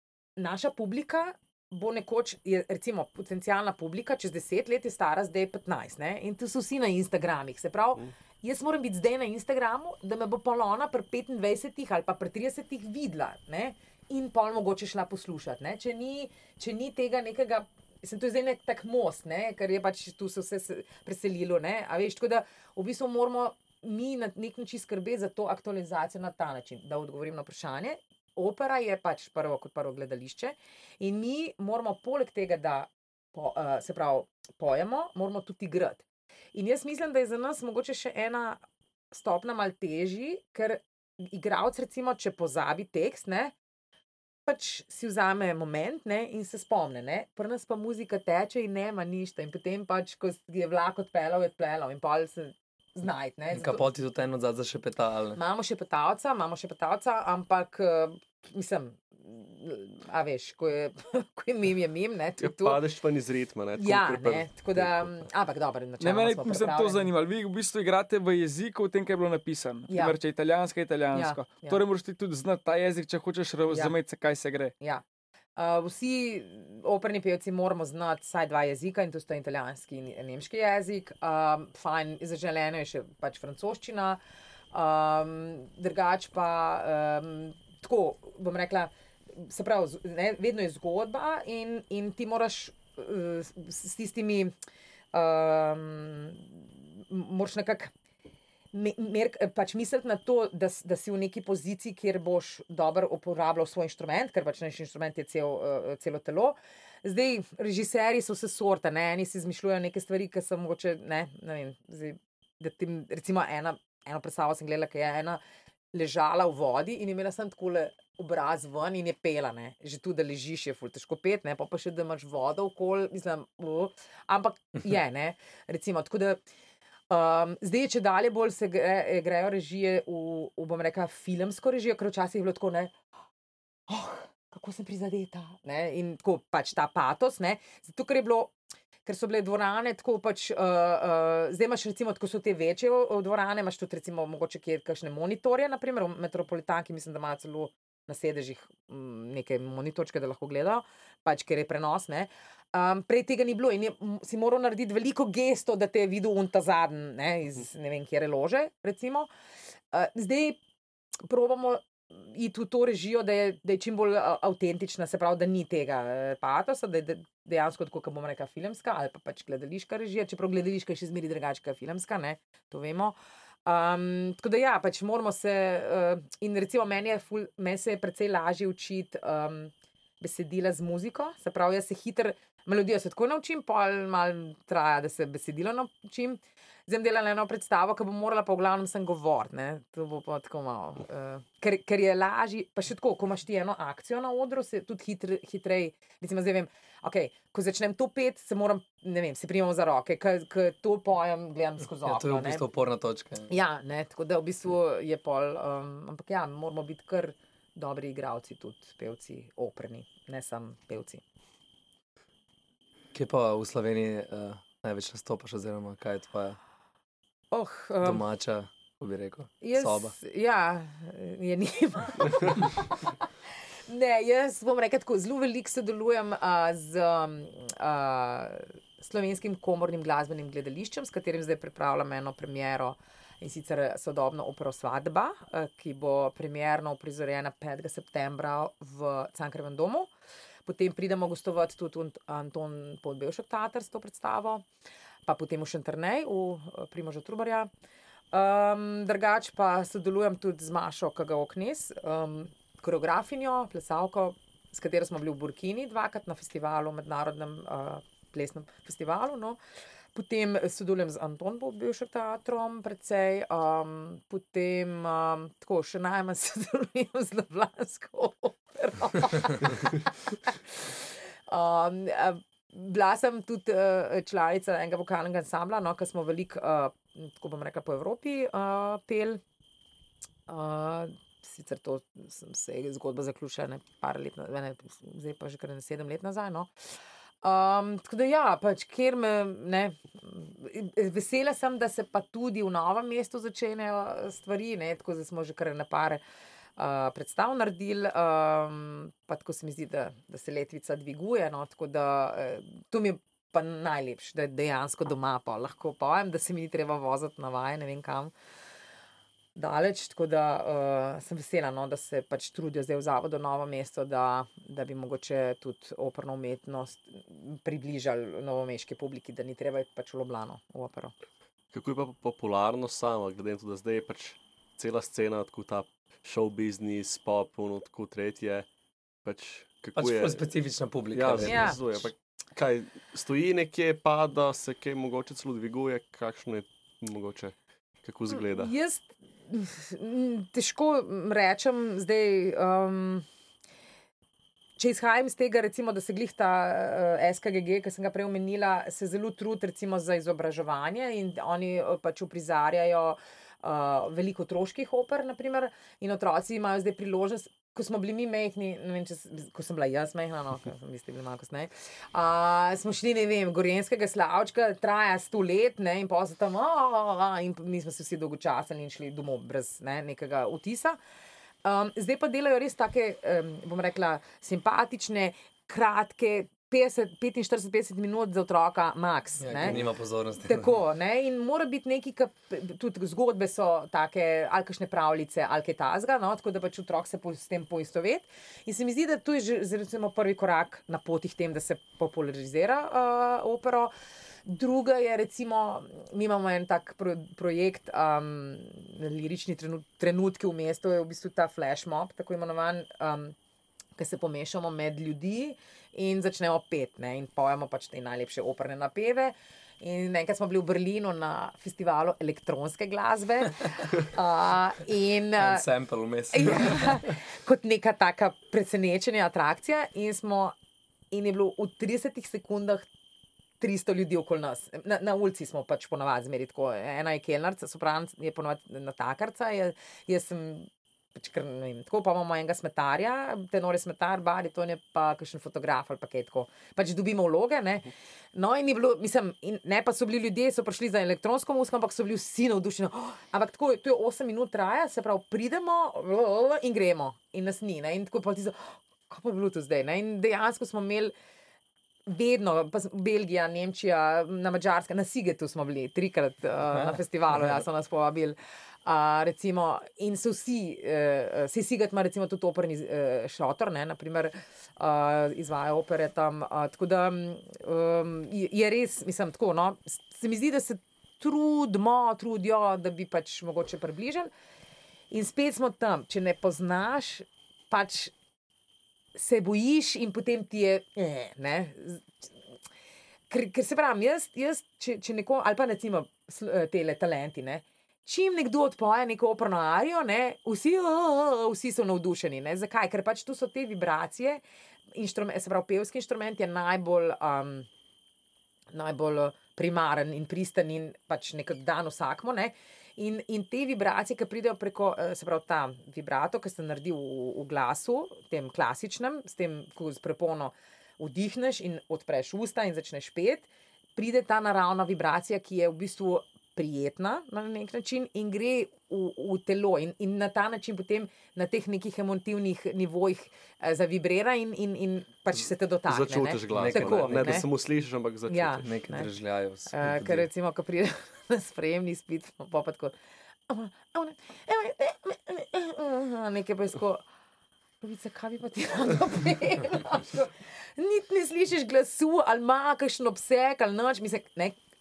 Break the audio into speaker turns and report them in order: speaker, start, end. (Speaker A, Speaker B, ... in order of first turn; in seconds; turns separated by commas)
Speaker A: 0.4-38.6, Speaker A: 39.1-43.5, Speaker A: 44.5-53.9, Speaker B: 53.5-55.4, Speaker A: 55.4-62.8, Speaker C: 62.4-65.1, Speaker A: 63.8-67.1, Speaker D: 66.0-74.7, Speaker A: 69.9-70.1, Speaker A: 71.1-71.8, Speaker A: 73.7-74.0, Speaker A: 75.6-84.2, Speaker A: 84.7-94.5, Speaker A: 95.1-97.9, Speaker A: 98.7-115.4, Speaker A: 115.9-126.4, Speaker A: 127.1-132.9, Speaker A: 133.9-138.5, Speaker A: 139.1-159.3, Speaker A: 159.9-160.6, Speaker A: 161.2-202.6, Speaker B: 202.0-203.5, Speaker A: 203.5-211.2, Speaker B: 213.1-216.6, Speaker A: 217.5-218.2, Speaker B: 218.0-220.2, Speaker A: 219.6-223.3, Speaker A: 223.9-240.1, Speaker A: 240.7-244.7, Speaker A: 245.3-247.7, Speaker A: 248.3-259.6, Speaker A: 260.1-279.4, Speaker A: 280.5-286.7, Speaker A: 287.4-296.2, Speaker A: 296.8-308.3, Speaker A: 309.6-321.1, Speaker C: 321.7-328.7, Speaker C: 329.2-330.4, Speaker B: 330.0-331.8, Speaker C: 331.1-338.7, Speaker A: 331.4-331.8, Speaker A: 338.3-343.3, Speaker A: 344.8-371.0, Speaker A: 371.6-379.8, Speaker B: 379.4-380.8, Speaker A: 380.4-393.9, Speaker A: 394.5-403.4, Speaker A: 404.0-415.6, Speaker B: 415.4-417.1, Speaker A: 416.3-420.6, Speaker A: 421.1-422.9, Speaker A: 423.6-451.1, Speaker A: 452.1-474.3, Speaker A: 475.1-478.1, Speaker A: 479.1-482.1, Speaker A: 483.3-494.4, Speaker A: 494.9-497.7, Speaker A: 498.7-527.5, Speaker C: 525.9-528.6, Speaker B: 526.5-527.5, Speaker A: 528.3-529.1, Speaker B: 528.5-530.3, Speaker A: 529.7-532.9, Speaker A: 533.5-537.0, Speaker A: 537.8-544.6